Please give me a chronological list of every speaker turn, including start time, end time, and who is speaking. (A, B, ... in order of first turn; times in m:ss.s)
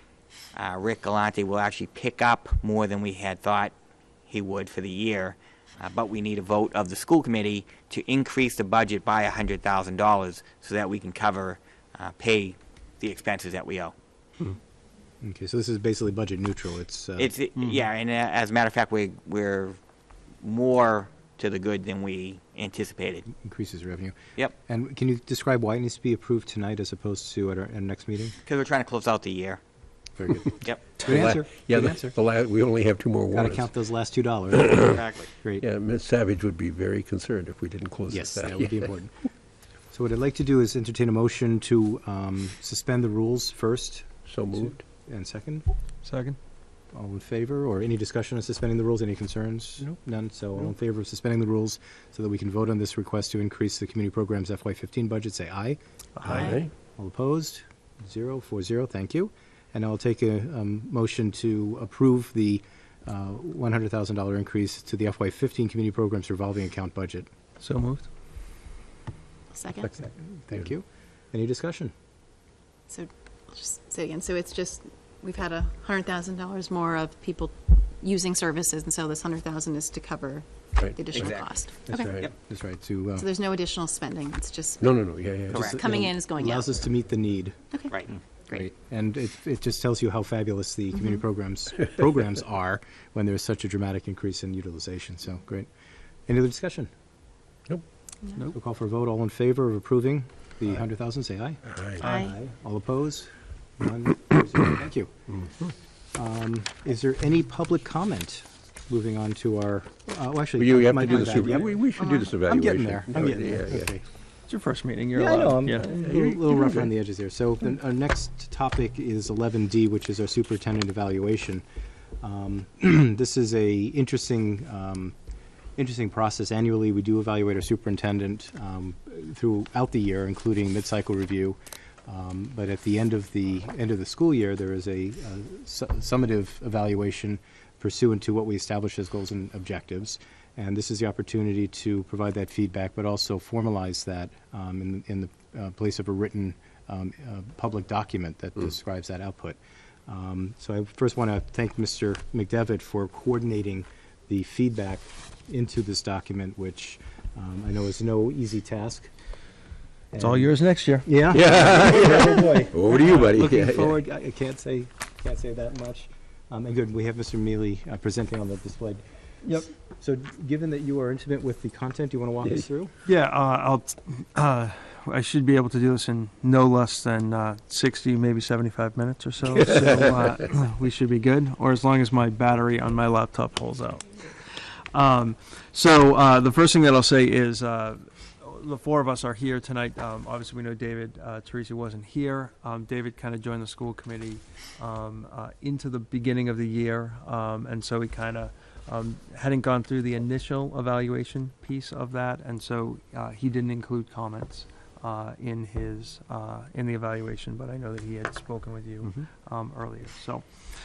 0:00.5-0:03.7 A
0:04.3-0:13.9 A
0:15.2-0:17.3 B
0:17.2-0:19.8 A
0:20.4-0:23.2 A
0:23.3-0:28.4 B
0:28.4-0:29.6 A
0:30.2-0:33.7 C
0:31.0-0:32.2 B
0:33.3-0:35.6 B
0:34.6-0:35.0 C
0:34.8-0:35.3 A
0:35.6-0:38.8 C
0:38.1-0:39.1 B
0:39.9-0:45.6 B
0:44.2-0:44.8 C
0:46.0-0:46.4 D
0:46.9-1:07.3 B
0:56.2-0:56.6 D
0:56.3-0:56.7 C
1:07.6-1:08.1 D
1:09.5-1:09.9 E
1:09.9-1:11.9 B
1:12.9-1:22.0 E
1:20.8-1:21.4 C
1:21.1-1:21.5 A
1:21.8-1:23.3 B
1:21.9-1:22.3 C
1:23.2-1:24.9 E
1:24.8-1:25.7 C
1:25.5-1:27.6 B
1:25.5-1:25.9 A
1:25.7-1:26.7 E
1:27.9-1:28.2 A
1:28.5-1:35.7 B
1:30.9-1:31.2 E
1:36.3-1:36.9 B
1:38.5-1:45.1 B
1:41.7-1:42.1 C
1:42.0-1:42.3 E
1:46.1-1:51.7 B
1:50.6-1:53.9 C
1:52.0-1:52.3 E
1:52.4-1:54.0 B
1:54.5-1:56.0 D
1:55.1-2:01.6 B
1:56.0-1:56.9 C
2:02.2-2:05.1 B
2:05.8-2:39.1 B
2:40.1-2:40.5 B
2:40.2-2:41.1 D
2:41.0-2:49.0 B
2:41.3-2:43.9 C
2:42.9-2:43.9 D
2:49.4-2:49.7 D
2:49.8-2:52.9 B
2:53.0-3:04.2 D
3:04.9-3:30.4 D